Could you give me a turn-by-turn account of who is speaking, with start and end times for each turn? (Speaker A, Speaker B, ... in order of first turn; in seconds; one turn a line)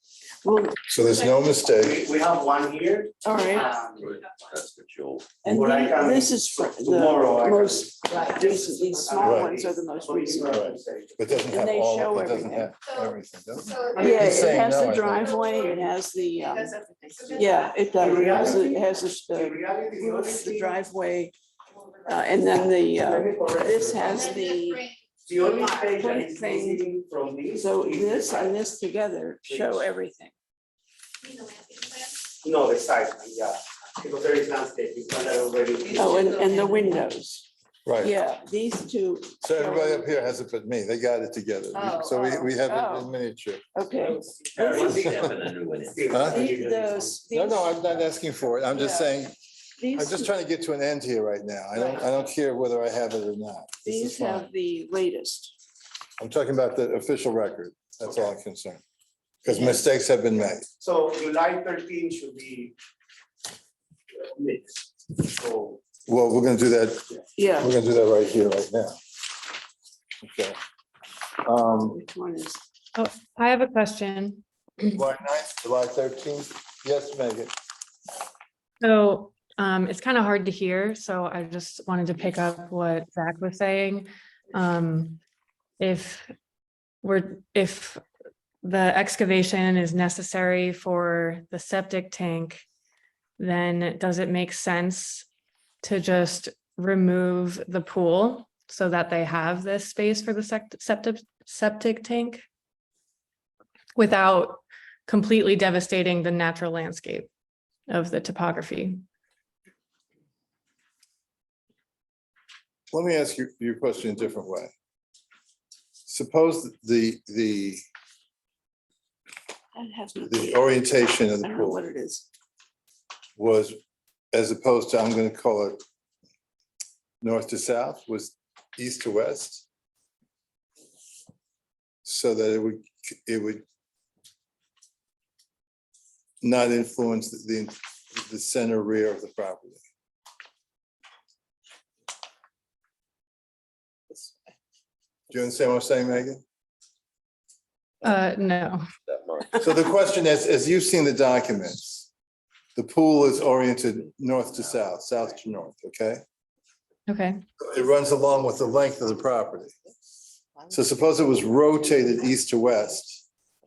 Speaker A: 0.4-1.0
Speaker B: 0.9-2.0
Speaker C: 1.7-4.1
Speaker A: 3.2-3.8
Speaker D: 3.6-4.1
Speaker E: 4.0-5.3
Speaker A: 5.4-10.7
Speaker C: 5.5-11.5
Speaker D: 8.1-8.5
Speaker B: 9.2-9.5
Speaker B: 10.5-15.3
Speaker A: 11.5-12.8
Speaker D: 12.8-15.9
Speaker C: 13.9-14.6
Speaker A: 14.0-16.8
Speaker C: 15.2-15.8
Speaker D: 16.4-18.2
Speaker A: 17.3-21.3
Speaker C: 17.9-20.8
Speaker D: 21.8-22.2
Speaker A: 22.0-24.8
Speaker C: 22.6-24.4
Speaker D: 24.1-26.0
Speaker C: 25.3-28.7
Speaker A: 25.9-26.9
Speaker A: 27.5-30.3
Speaker C: 29.4-29.8
Speaker D: 31.2-32.2
Speaker C: 32.4-36.4
Speaker D: 35.9-37.0
Speaker A: 35.9-37.5
Speaker B: 37.9-38.1
Speaker A: 38.0-40.4
Speaker B: 39.4-43.6
Speaker D: 41.8-42.4
Speaker A: 42.6-43.1
Speaker A: 43.8-44.2
Speaker C: 44.1-45.1
Speaker E: 44.5-46.1
Speaker B: 44.8-45.3
Speaker C: 45.9-47.2
Speaker B: 46.1-46.5
Speaker A: 46.3-47.9
Speaker B: 47.3-49.4
Speaker A: 48.6-49.2
Speaker A: 49.8-50.3
Speaker B: 49.9-54.5
Speaker A: 53.8-55.5
Speaker B: 56.2-58.8
Speaker B: 59.4-60.7
Speaker C: 60.8-62.8
Speaker C: 64.1-65.8
Speaker B: 66.1-67.1
Speaker A: 67.4-67.7
Speaker B: 67.6-69.0
Speaker B: 70.2-70.6
Speaker B: 71.4-72.0
Speaker A: 71.8-72.6
Speaker F: 73.0-74.9
Speaker B: 74.9-77.5
Speaker F: 78.8-85.2
Speaker F: 85.8-86.3
Speaker F: 87.0-88.0
Speaker F: 88.6-92.6
Speaker F: 93.4-95.3
Speaker F: 95.8-102.4
Speaker F: 104.0-107.3
Speaker F: 107.9-109.0
Speaker B: 112.9-114.7
Speaker B: 116.1-117.8
Speaker A: 119.7-122.3
Speaker B: 120.3-121.8
Speaker B: 123.4-123.8
Speaker B: 124.3-125.8
Speaker B: 127.2-129.7
Speaker B: 132.1-133.6
Speaker B: 136.4-139.8
Speaker B: 145.3-146.4
Speaker F: 148.0-148.8
Speaker E: 149.1-149.6
Speaker B: 149.6-152.1
Speaker B: 152.8-156.2
Speaker F: 157.1-157.4
Speaker B: 157.6-159.7
Speaker B: 160.7-163.2